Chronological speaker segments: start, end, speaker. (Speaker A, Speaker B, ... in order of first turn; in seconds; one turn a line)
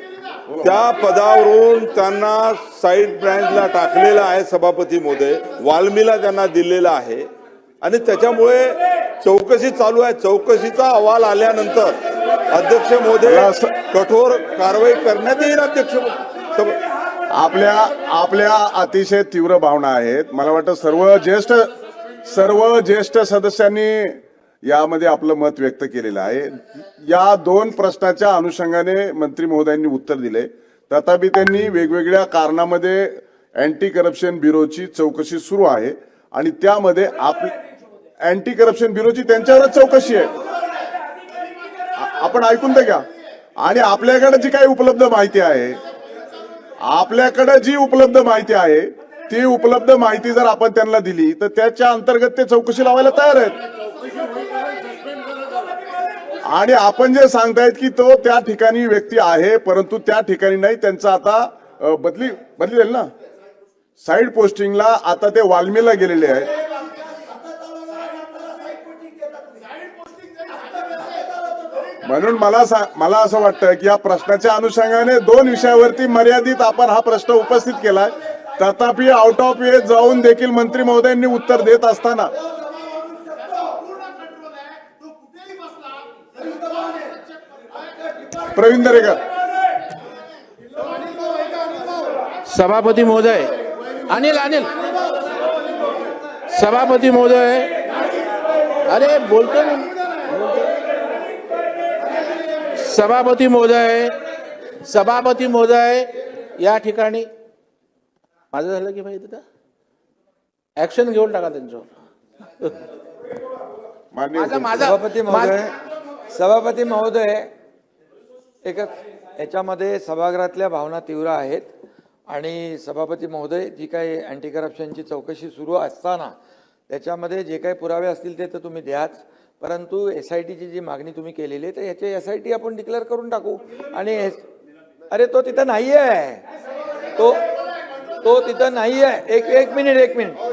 Speaker A: 0.5-0.8
Speaker B: 0.6-7.2
Speaker B: 7.8-11.9
Speaker B: 12.5-16.7
Speaker A: 13.2-13.7
Speaker A: 17.3-21.7
Speaker A: 22.2-37.5
Speaker A: 38.2-40.3
Speaker A: 42.0-43.0
Speaker A: 43.6-45.8
Speaker A: 46.8-53.6
Speaker A: 56.5-63.1
Speaker A: 64.0-66.5
Speaker A: 72.0-82.3
Speaker A: 88.5-89.2
Speaker C: 92.5-94.7
Speaker C: 96.5-97.9
Speaker C: 98.9-100.6
Speaker C: 102.8-104.2
Speaker C: 104.8-107.3
Speaker C: 108.5-109.4
Speaker C: 110.8-111.9
Speaker A: 114.1-114.8
Speaker C: 114.3-115.5
Speaker D: 114.8-115.7
Speaker D: 116.3-117.5
Speaker D: 118.6-121.7
Speaker D: 122.3-126.3
Speaker D: 126.9-134.4
Speaker D: 135.1-136.4
Speaker D: 137.2-137.4
Speaker D: 138.2-140.4